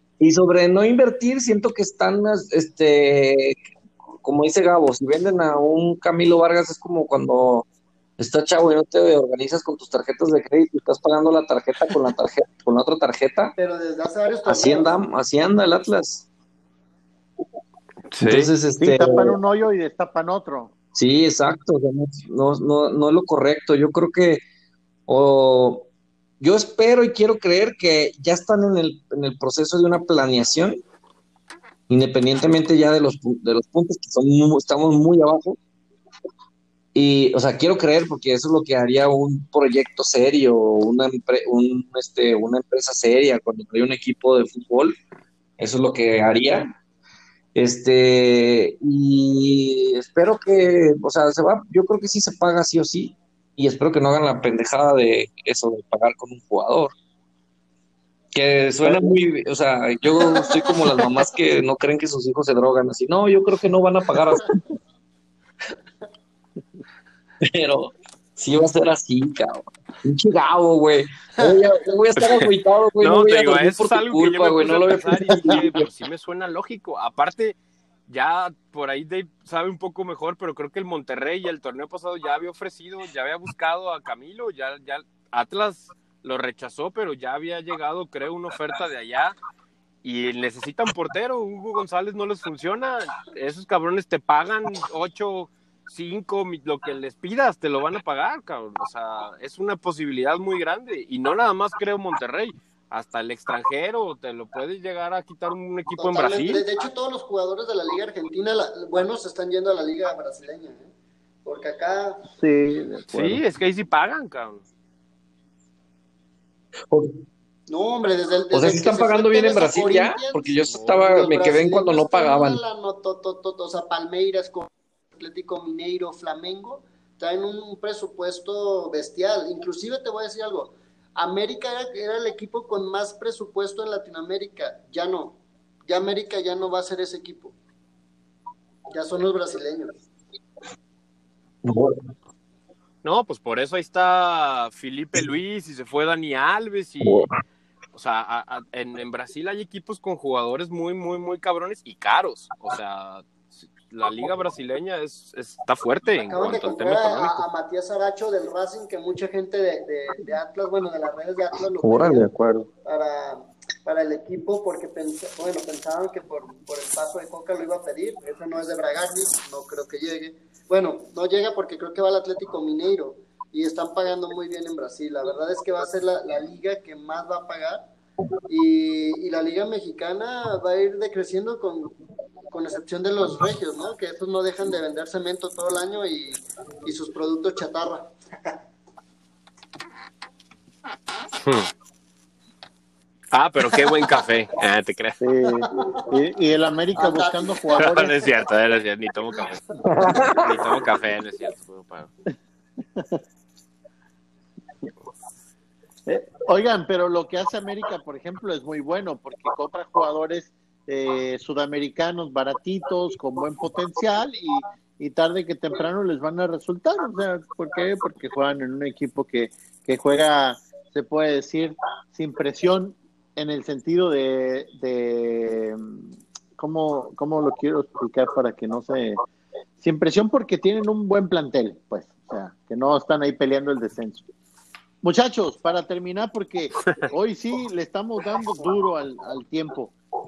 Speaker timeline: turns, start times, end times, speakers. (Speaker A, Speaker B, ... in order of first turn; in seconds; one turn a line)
Speaker A: 0.2-3.6
Speaker A: 4.2-7.7
Speaker A: 8.2-13.6
Speaker B: 13.6-14.9
Speaker A: 14.5-16.3
Speaker C: 18.1-18.5
Speaker A: 18.2-19.3
Speaker D: 18.8-20.7
Speaker A: 20.9-24.4
Speaker A: 25.1-25.9
Speaker A: 26.4-30.8
Speaker A: 31.9-35.6
Speaker A: 37.0-45.0
Speaker A: 45.6-46.7
Speaker A: 47.5-56.9
Speaker A: 58.3-64.6
Speaker D: 58.8-59.1
Speaker A: 67.4-75.9
Speaker C: 72.2-77.6
Speaker D: 75.4-75.7
Speaker C: 78.1-89.4
Speaker C: 90.0-106.7
Speaker B: 106.0-110.9
Speaker B: 111.5-112.2
Speaker D: 112.4-113.4
Speaker C: 113.1-114.6
Speaker B: 117.7-137.6
Speaker A: 118.5-122.6
Speaker B: 138.9-139.9
Speaker A: 141.6-142.0
Speaker C: 143.0-147.3
Speaker A: 147.0-147.3
Speaker C: 147.9-157.5
Speaker B: 156.3-162.3
Speaker A: 161.8-162.7
Speaker B: 162.8-177.8
Speaker B: 178.5-181.9
Speaker B: 182.5-188.1
Speaker C: 191.4-191.7
Speaker C: 193.3-195.2
Speaker D: 195.2-198.2
Speaker B: 196.9-198.2
Speaker C: 197.8-202.1
Speaker A: 199.8-200.5
Speaker D: 202.9-203.2
Speaker D: 206.1-226.0
Speaker D: 226.6-229.2
Speaker D: 229.8-234.2
Speaker D: 235.0-239.9